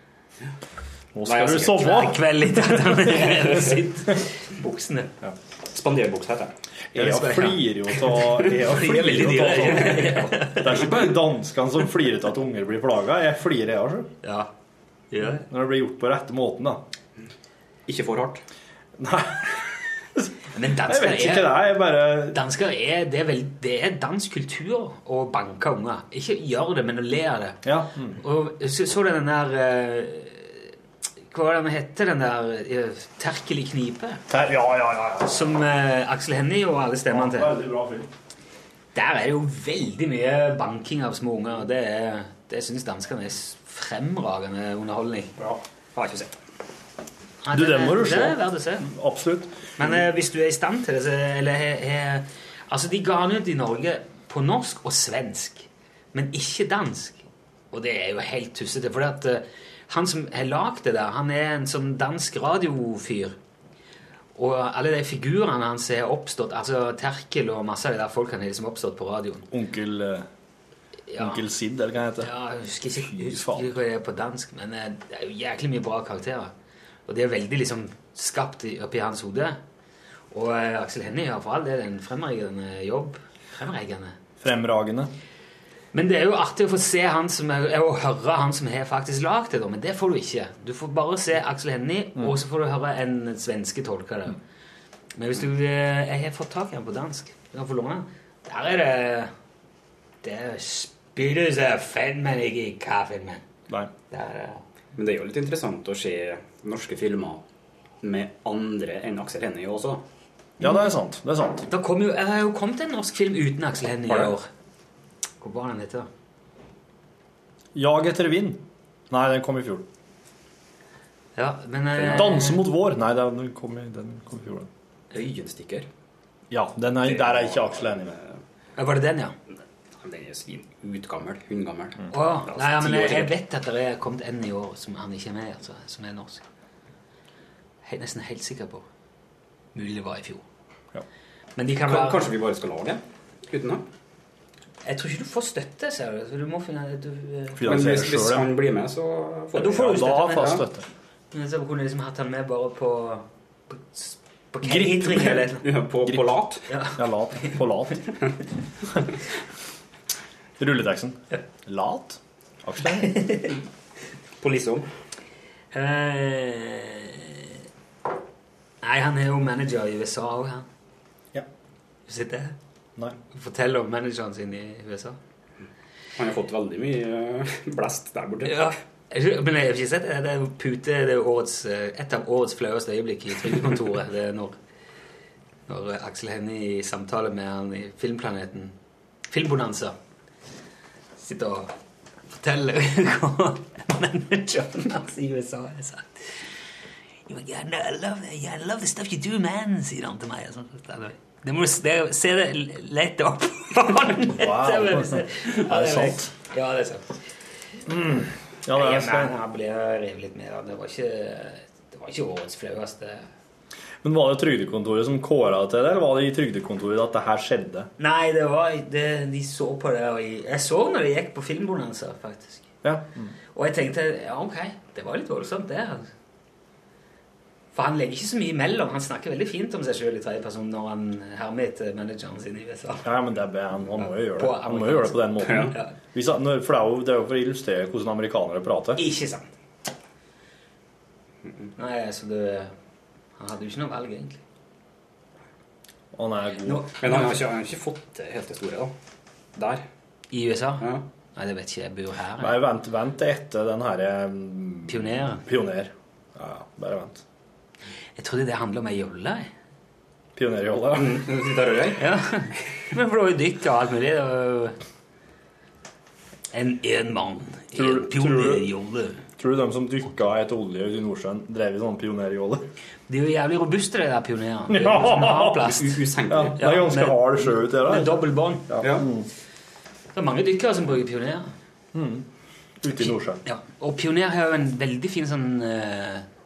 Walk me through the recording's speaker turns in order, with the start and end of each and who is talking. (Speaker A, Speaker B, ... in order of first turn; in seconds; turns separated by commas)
Speaker A: 1.1-3.1, Speaker B: 1.2-2.0, Speaker C: 1.6-5.1, Speaker B: 3.3-3.7, Speaker B: 5.7-6.5, Speaker C: 6.9-10.9, Speaker A: 6.9-14.1, Speaker B: 9.7-10.2, Speaker C: 14.2-14.5, Speaker C: 15.1-15.4, Speaker A: 15.4-16.8, Speaker B: 17.9-18.4, Speaker A: 19.0-19.6, Speaker C: 20.5-21.6, Speaker A: 20.8-22.4, Speaker C: 22.3-27.6, Speaker A: 27.6-28.2, Speaker C: 28.2-30.7, Speaker C: 31.3-34.2, Speaker A: 34.3-35.4, Speaker C: 35.2-37.5, Speaker A: 37.1-38.1, Speaker C: 39.0-45.4, Speaker B: 46.0-46.4, Speaker C: 47.4-48.9, Speaker A: 47.5-49.7, Speaker C: 49.8-63.4, Speaker C: 64.4-69.5, Speaker A: 69.5-70.3, Speaker C: 71.1-71.4, Speaker A: 71.2-72.3, Speaker C: 72.2-76.5, Speaker A: 73.0-73.7, Speaker C: 77.1-79.6, Speaker C: 80.3-84.2, Speaker A: 84.4-85.1, Speaker C: 85.9-94.4, Speaker C: 95.2-99.3, Speaker C: 100.2-103.4, Speaker C: 104.1-104.6, Speaker B: 105.0-107.4, Speaker B: 108.0-110.0, Speaker A: 110.6-111.7, Speaker C: 111.7-114.5, Speaker B: 114.1-114.3, Speaker C: 115.4-116.1, Speaker A: 117.8-119.8, Speaker C: 121.4-122.7, Speaker B: 122.0-122.3, Speaker A: 122.1-124.7, Speaker B: 125.1-125.9, Speaker A: 126.5-128.2, Speaker B: 127.0-128.3, Speaker C: 128.8-129.3, Speaker B: 130.0-133.3, Speaker C: 132.1-136.4, Speaker C: 137.8-138.8, Speaker C: 139.8-140.4, Speaker C: 141.6-142.3, Speaker B: 141.8-143.8, Speaker C: 144.8-147.7, Speaker A: 147.6-148.5, Speaker B: 147.6-150.6, Speaker C: 149.5-150.6, Speaker A: 149.7-150.8, Speaker C: 151.3-155.7, Speaker A: 154.6-155.3, Speaker B: 155.1-156.7, Speaker C: 156.7-157.6, Speaker A: 157.0-158.0, Speaker A: 160.6-163.3, Speaker C: 163.0-163.6, Speaker B: 164.4-164.9, Speaker C: 165.7-167.6, Speaker C: 168.8-170.7, Speaker C: 172.1-172.6, Speaker C: 173.3-175.2, Speaker B: 176.2-178.7, Speaker C: 178.4-184.6, Speaker C: 185.7-188.8, Speaker C: 189.3-189.9, Speaker C: 191.2-191.7, Speaker C: 192.3-196.4, Speaker C: 197.3-207.2, Speaker A: 204.3-206.3, Speaker A: 207.9-209.4, Speaker C: 208.7-213.3, Speaker A: 214.0-217.9, Speaker C: 218.0-222.7, Speaker A: 222.8-223.3, Speaker C: 223.6-226.1, Speaker C: 227.7-233.1, Speaker A: 233.0-239.0, Speaker C: 234.0-235.9, Speaker C: 239.0-239.5, Speaker C: 241.8-242.7, Speaker C: 243.4-244.4, Speaker A: 246.1-246.9, Speaker C: 246.7-247.3, Speaker B: 247.0-248.9, Speaker B: 249.6-249.8, Speaker C: 250.3-252.6, Speaker A: 252.4-257.2, Speaker C: 254.9-255.4, Speaker C: 258.2-259.5, Speaker A: 260.4-261.2, Speaker B: 260.9-262.1, Speaker C: 262.0-264.8, Speaker C: 266.5-269.2, Speaker A: 267.8-268.7, Speaker A: 269.4-272.7, Speaker C: 273.1-276.0, Speaker A: 274.7-275.6, Speaker B: 275.6-276.8, Speaker A: 276.3-279.3, Speaker C: 276.6-278.8, Speaker B: 278.8-279.1, Speaker C: 280.1-281.5, Speaker A: 281.9-282.3, Speaker A: 282.8-283.4, Speaker C: 282.9-286.3